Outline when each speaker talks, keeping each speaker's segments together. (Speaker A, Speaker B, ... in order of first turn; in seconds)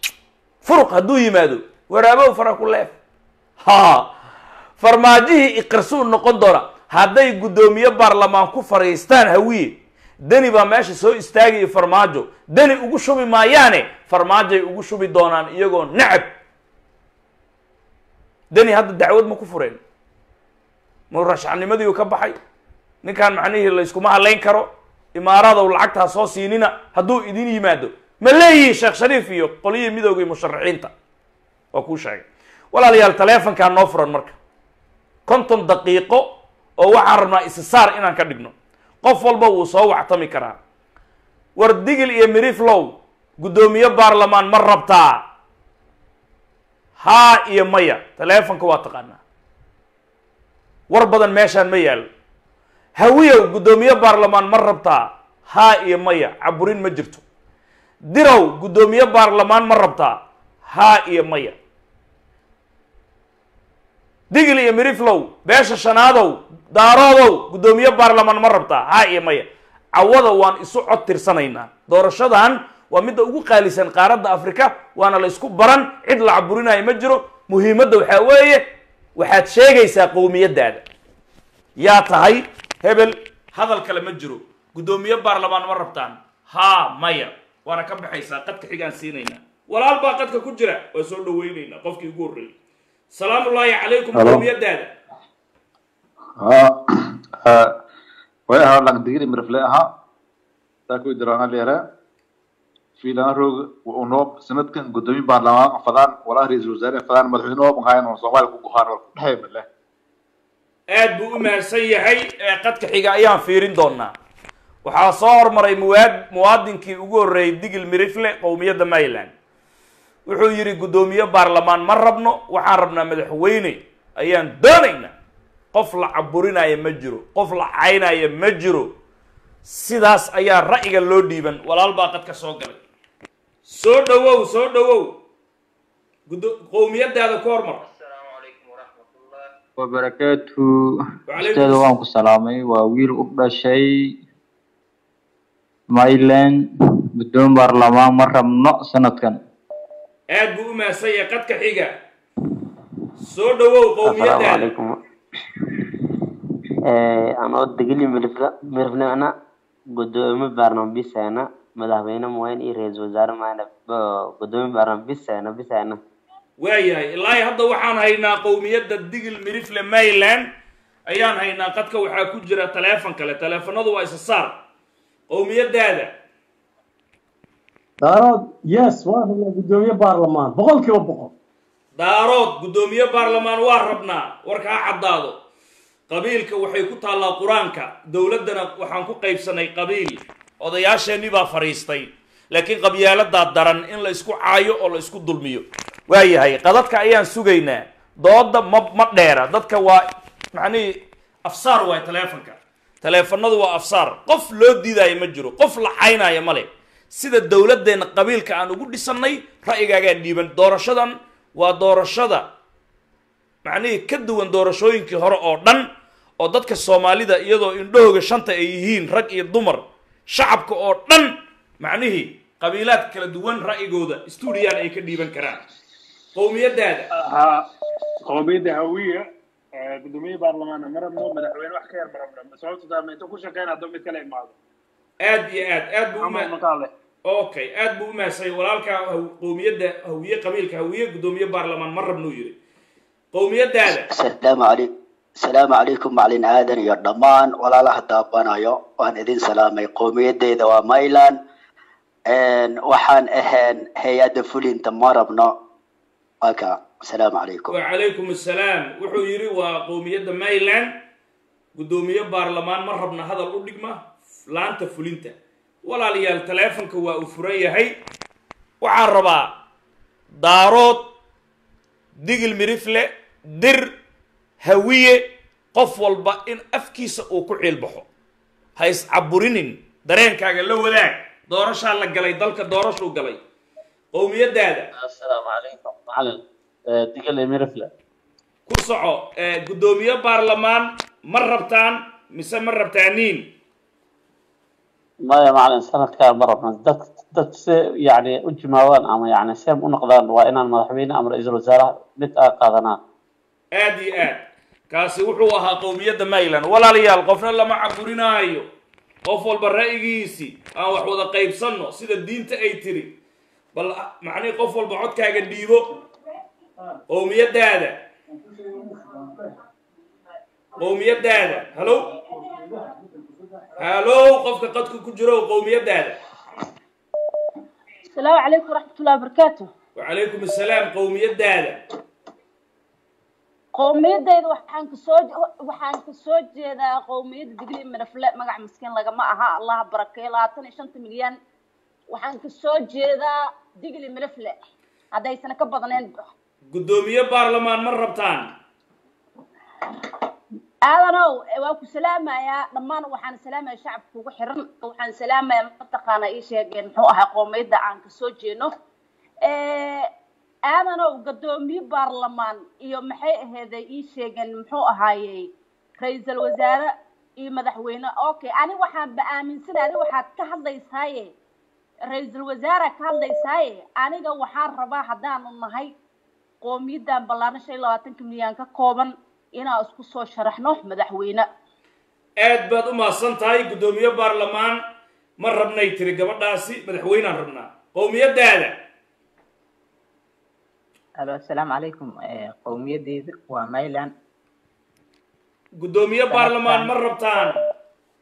Speaker A: 0.6-2.9, 3.6-4.1, 4.8-16.3, 18.5-19.8, 21.1-22.4, 23.0-30.9, 31.7-34.4, 35.3-40.6, 41.6-45.2, 47.0-49.2, 50.9-52.1, 53.0-57.2, 58.1-60.2, 60.7-61.6, 64.3-78.6, 79.2-80.8, 81.8-92.5, 93.1-94.9, 110.9-114.1, 114.8-119.3, 120.3-125.1, 125.7-128.9, 129.7-132.8, 133.7-135.2, 136.3-137.8, 141.3-141.9, 150.3-151.9, 153.3-154.7, 166.6-170.5, 171.1-174.6, 175.3-176.1, 182.0-185.4, 186.1-212.5, 213.7-215.8, 216.4-225.6, 226.3-227.1, 235.2-236.5, 237.3-242.6, 243.3-244.1, 257.7-260.9, 261.8-267.9, 268.8-269.6, 270.4-271.1, 272.2-273.9, 274.6-278.1, 278.8-283.4, 284.1-284.9, 288.7-293.5, 303.7-308.7, 309.3-313.1, 313.7-315.9, 317.1-318.0, 320.8-322.1, 323.8-326.2, 330.0-331.8, 346.7-348.5, 382.4-384.8, 385.4-388.8, 395.8-397.6
Speaker B: 94.1-94.4, 96.4-96.8, 97.4-97.7, 98.5-99.9, 100.9-101.8, 103.0-109.7
Speaker C: 139.8-144.1, 145.9-146.6, 147.2-149.4, 236.2-236.9
Speaker D: 154.1-154.9, 156.9-159.3, 159.9-166.0
Speaker E: 178.0-181.3
Speaker F: 227.1-227.6, 228.3-229.2, 229.8-234.5
Speaker G: 244.1-244.9, 245.4-251.4, 252.3-255.5, 256.4-257.7
Speaker H: 285.0-287.9, 295.2-303.0
Speaker I: 328.1-329.7, 333.8-341.4, 342.1-344.6, 345.1-346.1, 350.8-358.7, 359.4-360.1, 360.7-371.3, 372.1-375.9, 376.6-381.5
Speaker J: 391.2-394.1, 396.3-396.9